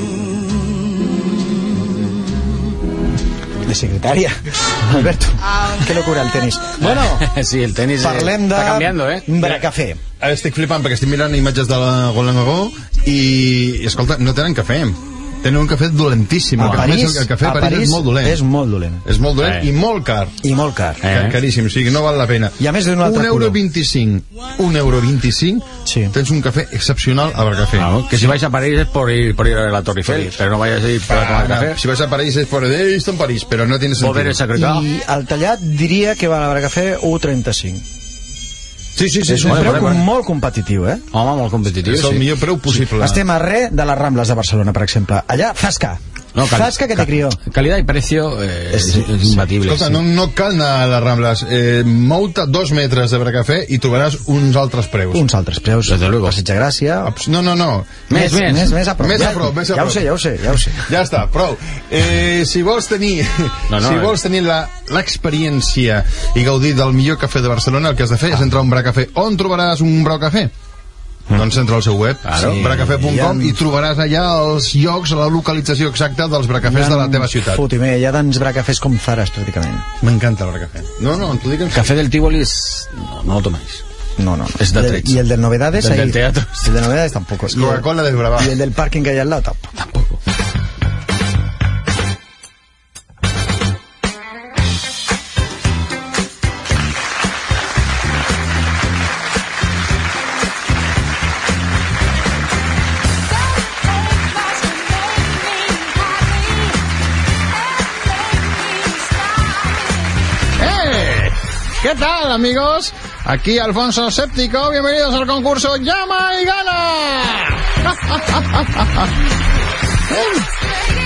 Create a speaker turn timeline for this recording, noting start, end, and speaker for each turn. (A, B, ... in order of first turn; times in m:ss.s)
0:03.6-0:07.3 A
0:06.8-0:09.6 B
0:08.0-0:10.0 A
0:10.2-0:18.4 C
0:16.6-0:19.0 A
0:19.0-0:20.4 C
0:19.4-0:19.7 B
0:20.4-0:21.0 A
0:21.0-0:21.4 B
0:21.1-0:28.3 C
0:22.6-0:23.6 A
0:25.8-0:26.1 A
0:27.8-0:31.8 B
0:31.1-0:34.4 C
0:34.0-0:34.8 B
0:34.5-0:37.8 A
0:39.0-0:39.9 C
0:39.2-0:41.0 A
0:39.3-0:40.0 B
0:41.1-0:42.2 B
0:41.8-0:43.2 C
0:42.9-0:47.4 A
0:46.3-0:50.0 B
0:48.7-0:49.4 A
0:49.6-0:55.2 C
0:55.1-0:57.1 A
0:55.9-0:56.4 B
0:57.0-0:58.0 C
0:58.1-0:58.8 B
0:58.1-1:00.9 A
0:59.0-1:00.0 C
1:00.8-1:10.5 C
1:03.7-1:04.2 B
1:11.3-1:17.6 C
1:12.2-1:13.0 B
1:12.4-1:13.6 A
1:16.6-1:19.9 A
1:20.0-1:21.9 C
1:21.7-1:23.8 B
1:24.2-1:29.7 A
1:24.6-1:25.2 B
1:25.8-1:26.5 B
1:27.5-1:28.5 C
1:29.8-1:30.2 B
1:50.6-1:59.1 C
2:00.1-2:00.5 C